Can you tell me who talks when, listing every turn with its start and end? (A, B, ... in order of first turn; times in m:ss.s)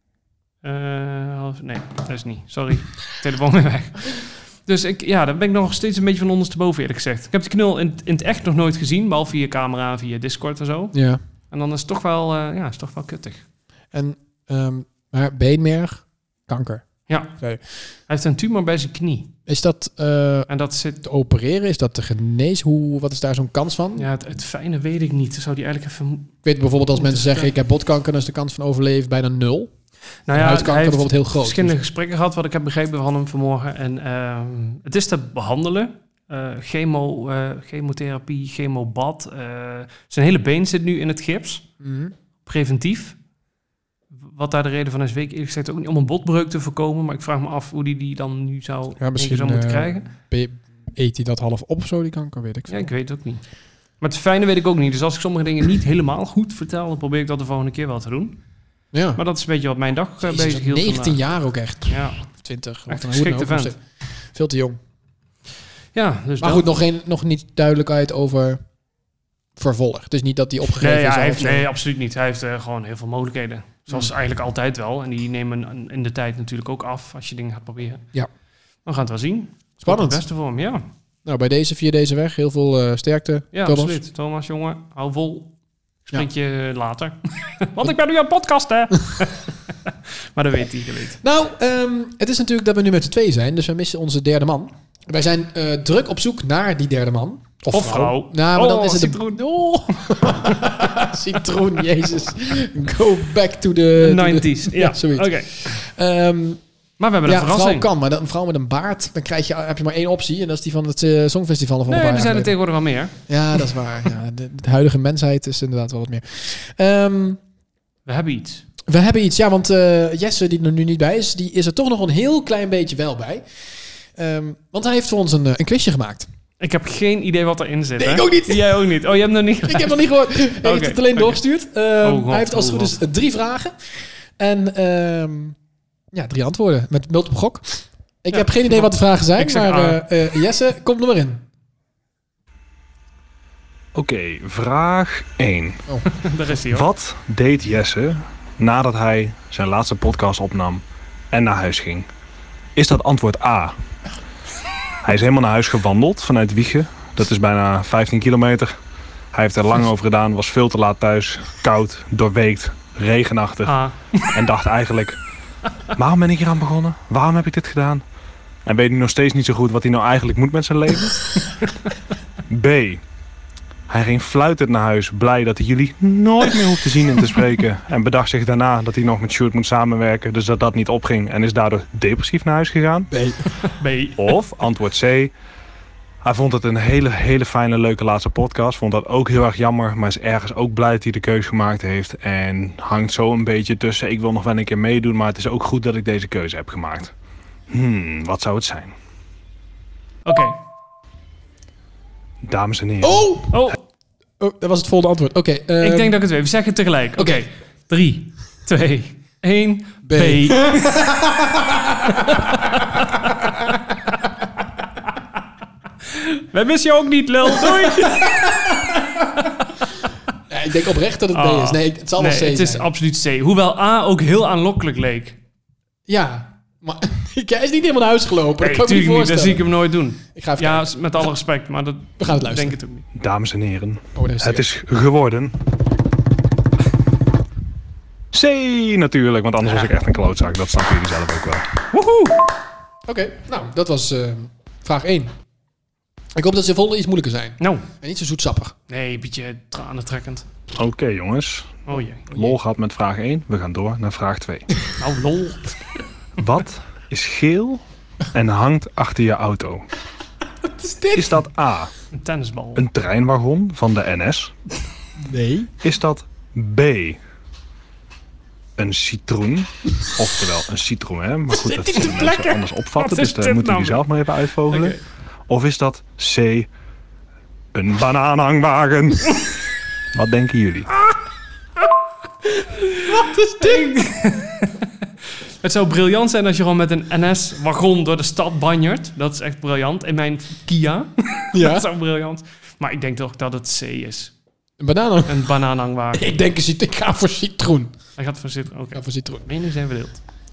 0:00.6-0:11.0 A
0:10.9-0:11.2 B
0:11.5-0:13.4 A
0:13.9-0:17.6 B
0:17.1-0:17.3 A
0:18.1-0:19.3 A
0:19.5-0:20.5 B
0:20.5-0:21.0 A
0:21.0-0:24.1 B
0:24.0-0:26.3 A
0:26.4-0:29.7 B
0:27.0-0:27.5 A
0:30.3-0:41.7 A
0:30.3-0:31.8 B
0:41.8-0:42.1 B
0:42.4-0:43.2 A
0:44.1-0:50.1 A
0:49.0-0:52.9 B
0:52.7-0:53.4 A
0:54.0-0:58.4 A
0:58.9-0:59.2 B
0:59.2-1:01.2 A
1:00.2-1:04.8 B
1:01.9-1:02.3 A
1:02.9-1:03.7 A
1:05.9-1:06.6 A
1:06.4-1:08.6 B
1:09.6-1:11.7 B
1:10.8-1:18.0 A
1:18.8-1:20.8 A
1:19.8-1:20.2 B
1:21.2-1:24.0 B
1:23.5-1:25.5 A
1:26.1-1:31.2 A
1:31.2-1:46.6 B
1:37.7-1:39.4 A
1:44.0-1:45.7 A
1:47.0-1:47.9 A
1:47.2-1:52.5 B
1:51.9-1:53.2 A
1:53.3-1:57.4 B
1:58.1-1:58.6 A
1:58.9-2:03.5 B
2:04.2-2:06.3 B
2:06.6-2:11.4 A
2:08.0-2:08.8 B
2:09.6-2:15.6 B
2:12.0-2:13.0 A
2:16.1-2:21.4 B
2:18.3-2:20.0 A
2:24.0-2:25.8 C
2:26.1-2:26.9 A
2:26.7-2:32.1 C
2:32.8-2:33.8 C
2:35.0-2:38.8 C
2:39.3-2:45.2 C
2:43.7-2:44.3 A
2:45.9-2:48.0 C
2:48.6-2:51.4 C
2:52.5-2:53.0 C
2:53.9-3:03.1 C
3:03.1-3:03.5 B
3:03.7-3:04.3 A
3:04.2-3:05.3 C
3:06.2-3:17.1 C
3:17.7-3:19.0 C
3:20.3-3:20.6 A
3:22.4-3:23.2 C
3:23.0-3:23.5 B
3:23.5-3:23.8 A
3:24.4-3:26.2 B
3:25.8-3:31.0 A
3:27.2-3:27.4 B
3:30.0-3:32.8 B
3:32.1-3:33.5 A
3:33.4-3:33.8 B
3:36.1-3:38.6 A
3:37.6-3:39.5 B
3:40.5-3:42.9 B
3:41.3-3:45.4 A
3:46.1-3:49.7 B
3:48.6-3:53.0 A
3:50.3-3:50.9 B
3:52.2-3:52.8 B
3:53.1-3:55.6 C
3:54.2-3:54.7 B
3:58.3-4:01.7 C
4:01.9-4:02.4 A
4:03.1-4:05.3 B
4:06.4-4:08.8 B
4:07.6-4:07.9 A
4:08.9-4:10.5 A
4:10.8-4:14.8 C
4:11.9-4:12.3 A
4:15.0-4:15.8 A
4:16.4-4:19.9 C
4:20.6-4:21.4 B
4:21.1-4:21.9 C
4:22.1-4:22.8 A
4:22.8-4:24.5 C
4:25.2-4:25.7 B
4:25.8-4:27.2 C
4:28.8-4:35.0 C
4:31.7-4:34.1 A
4:31.9-4:32.3 B
4:34.7-4:35.0 A
4:35.5-4:36.7 C
4:37.7-4:39.5 C
4:40.1-4:40.9 C
4:42.6-4:44.9 A
4:43.1-4:43.9 B
4:45.6-4:54.3 A
4:51.5-4:51.9 B
4:54.8-4:55.5 B
4:55.3-4:56.3 A
4:56.1-4:57.9 B
4:58.2-5:00.2 A
4:58.9-4:59.5 B